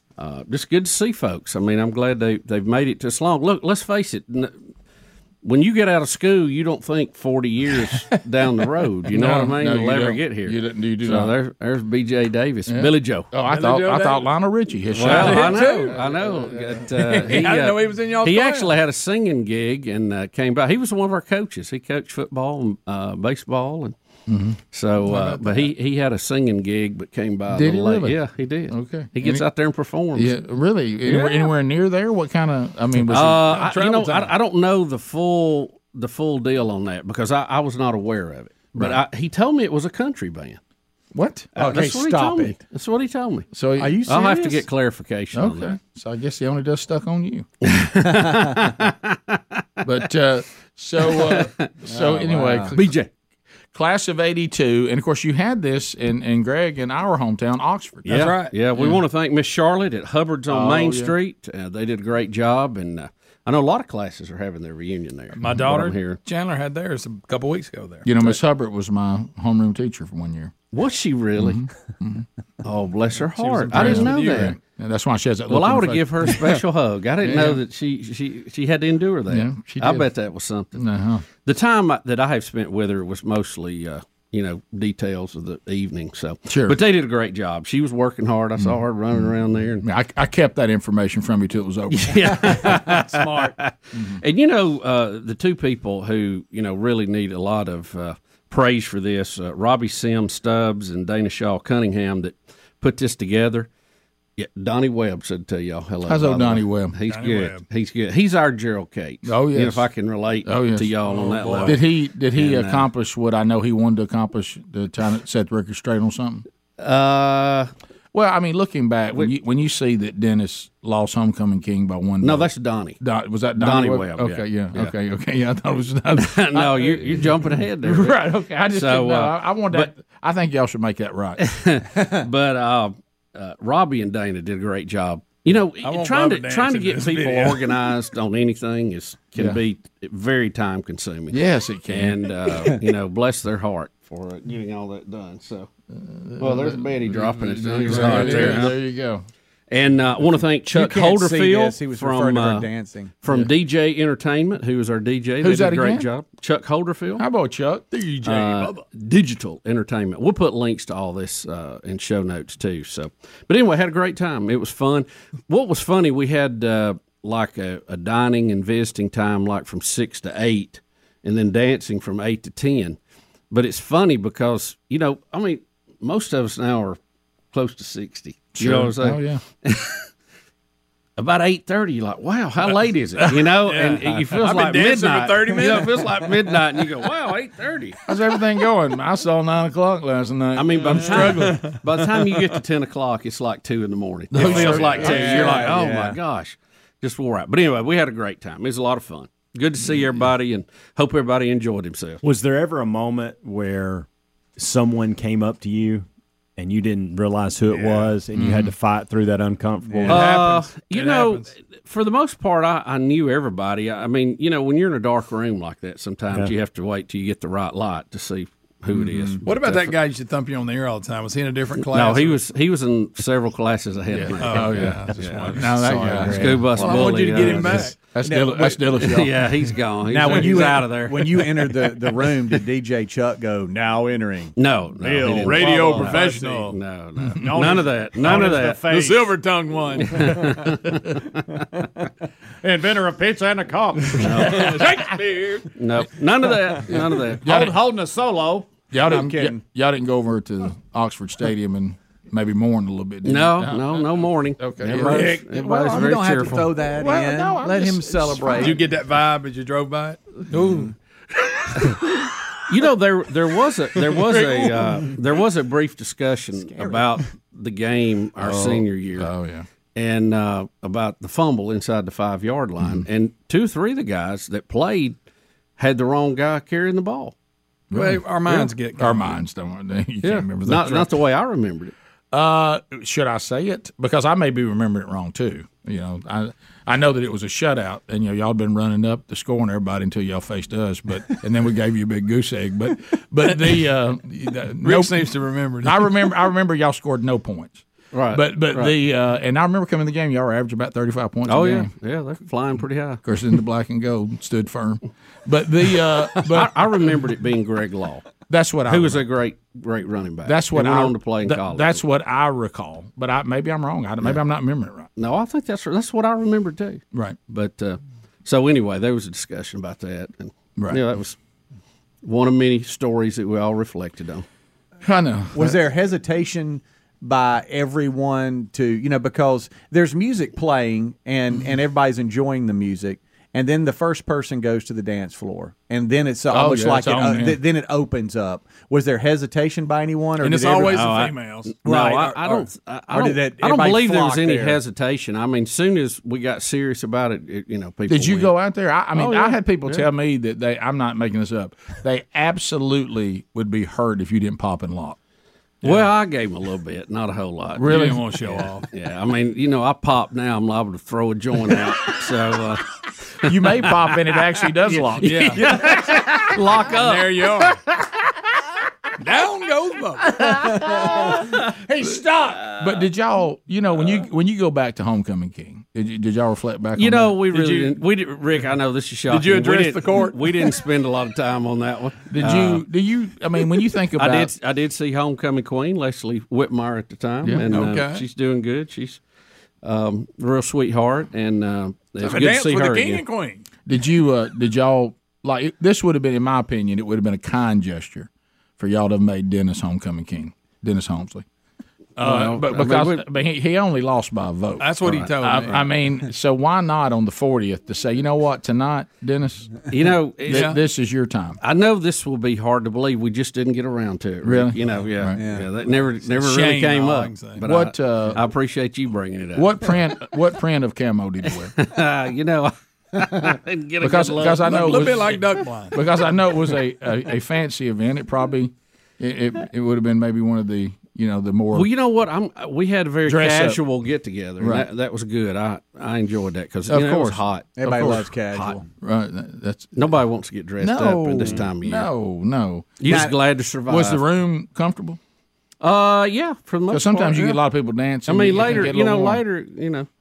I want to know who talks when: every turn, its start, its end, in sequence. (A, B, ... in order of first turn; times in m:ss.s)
0:00.2-0:04.5 A
0:05.4-0:13.3 A
0:09.1-0:11.3 B
0:12.7-0:16.6 B
0:13.4-0:14.3 C
0:14.9-0:16.1 C
0:14.9-0:23.9 A
0:17.0-0:18.8 C
0:24.3-0:24.6 B
0:24.7-0:30.3 A
0:25.0-0:25.7 C
0:27.5-0:28.2 B
0:28.7-0:29.4 B
0:30.1-0:33.8 B
0:33.1-0:40.6 A
0:33.6-0:34.3 C
0:41.1-0:41.5 B
0:41.6-0:42.6 D
0:41.6-0:43.5 A
0:43.5-0:44.0 B
0:43.8-0:44.6 D
0:44.0-0:45.8 A
0:45.3-0:47.5 B
0:47.6-0:49.4 A
0:49.8-0:53.0 B
0:51.0-0:51.7 A
0:51.9-0:52.8 D
0:52.8-0:53.0 A
0:53.7-0:58.1 B
0:58.0-1:06.2 A
0:58.0-0:58.6 C
1:00.5-1:01.1 B
1:05.4-1:08.1 C
1:08.0-1:10.5 B
1:10.7-1:11.6 A
1:11.4-1:12.2 B
1:12.6-1:14.6 A
1:13.4-1:14.6 C
1:13.7-1:16.6 B
1:15.5-1:20.8 A
1:17.2-1:17.6 B
1:19.3-1:20.1 B
1:20.8-1:21.2 B
1:21.4-1:29.8 A
1:26.5-1:26.8 B
1:28.6-1:29.3 B
1:29.8-1:32.8 B
1:31.9-1:43.7 A
1:33.9-1:34.2 B
1:44.4-1:52.9 A
1:46.0-1:47.0 B
1:47.1-1:47.6 C
1:49.2-1:49.8 B
1:50.4-1:50.9 B
1:51.0-1:51.8 C
1:51.6-1:56.4 B
1:56.8-1:57.7 A
1:58.1-2:02.5 B
2:02.2-2:03.0 A
2:03.0-2:11.4 B
2:03.6-2:04.9 A
2:06.1-2:09.9 A
2:11.4-2:25.7 A
2:15.8-2:17.7 C
2:21.3-2:22.7 B
2:25.9-2:29.2 B
2:26.4-2:28.8 A
2:29.7-2:32.7 A
2:30.7-2:33.1 D
2:33.2-2:37.2 A
2:35.4-2:36.1 B
2:37.2-2:37.9 B
2:37.9-2:38.8 C
2:38.2-2:53.0 A
2:53.5-2:57.0 A
2:57.5-3:00.0 A
2:58.5-2:59.4 B
3:01.2-3:08.0 A
3:03.6-3:06.2 C
3:08.1-3:11.6 B
3:10.5-3:22.2 A
3:10.9-3:12.0 C
3:14.3-3:15.6 C
3:14.3-3:15.7 B
3:14.8-3:16.2 D
3:22.2-3:26.0 E
3:26.6-3:30.3 E
3:27.7-3:28.1 C
3:28.3-3:28.7 B
3:29.8-3:30.2 D
3:30.0-3:31.5 C
3:30.1-3:40.0 A
3:38.9-3:39.4 D
3:39.4-3:42.4 C
3:41.8-3:47.9 A
3:44.2-3:46.6 B
3:44.4-3:48.0 C
3:45.8-3:47.6 D
3:48.1-3:49.3 B
3:48.1-3:49.2 D
3:49.0-3:51.9 A
3:50.0-3:54.5 D
3:54.6-3:59.1 A
3:55.0-3:56.3 E
3:55.2-3:56.3 D
3:55.2-3:56.8 C
3:57.4-4:00.9 C
4:00.0-4:01.1 A
4:02.6-4:04.2 D
4:04.2-4:05.1 A
4:04.3-4:05.7 C
4:05.7-4:07.5 A
4:07.4-4:07.8 B
4:07.4-4:09.6 D
4:08.9-4:15.4 B
4:13.2-4:16.7 A
4:15.1-4:18.8 D
4:16.9-4:18.8 B
4:18.5-4:20.8 C
4:20.5-4:20.8 B
4:22.7-4:29.3 A
4:24.3-4:24.9 C
4:26.8-4:27.0 D
4:28.4-4:29.6 B
4:29.9-4:35.1 A
4:35.8-4:37.3 A
4:37.9-4:41.1 B
4:37.9-4:39.4 C
4:40.2-4:41.9 A
4:42.3-5:01.9 B
4:53.4-4:53.8 C
4:54.8-4:56.3 C
4:58.1-4:58.9 A
5:01.4-5:03.2 A
5:03.2-5:06.8 B
5:06.4-5:08.2 A
5:08.5-5:09.2 B
5:08.9-5:12.0 A
5:10.4-5:15.1 B
5:15.2-5:21.4 A
5:22.2-5:24.4 A
5:25.0-5:25.8 B
5:25.5-5:41.2 D
5:36.5-5:37.6 B
5:40.4-5:41.9 C
5:40.8-5:48.5 A
5:41.9-5:44.8 D
5:48.1-5:55.2 B
5:49.1-5:50.1 A
5:55.8-5:56.1 C
5:55.8-6:04.3 A
5:57.8-5:58.3 B
5:57.8-5:58.9 C
6:03.4-6:05.6 B
6:04.9-6:07.7 A
6:05.0-6:05.9 C
6:06.9-6:07.8 C
6:09.2-6:10.5 C
6:12.0-6:17.5 B
6:17.0-6:22.8 A
6:17.6-6:17.9 C
6:19.3-6:20.8 C
6:22.3-6:24.5 B
6:24.2-6:29.2 A
6:27.7-6:28.2 C
6:29.8-6:33.2 A
6:32.2-6:33.6 C
6:33.8-6:41.4 B
6:42.2-6:49.9 B
6:42.2-6:43.2 A
6:44.8-6:45.9 C
6:49.9-6:50.8 A
6:50.5-6:51.6 B
6:50.5-6:50.8 C
6:51.6-7:00.0 A
6:54.4-6:55.4 B
6:55.3-6:55.7 D
6:56.2-6:57.6 C
6:57.6-6:58.4 B
6:59.6-7:01.7 B
7:01.6-7:05.4 A
7:04.0-7:11.9 B
7:04.6-7:06.0 C
7:11.7-7:17.7 A
7:13.2-7:13.8 B
7:14.6-7:14.8 B
7:16.9-7:18.3 B
7:17.8-7:18.8 D
7:18.5-7:18.8 A
7:19.0-7:19.9 B
7:19.9-7:22.1 A
7:20.8-7:23.3 B
7:23.0-7:24.2 A
7:23.1-7:23.3 D
7:23.9-7:25.2 B
7:25.8-7:27.6 A
7:26.9-7:29.4 B
7:28.2-7:30.1 A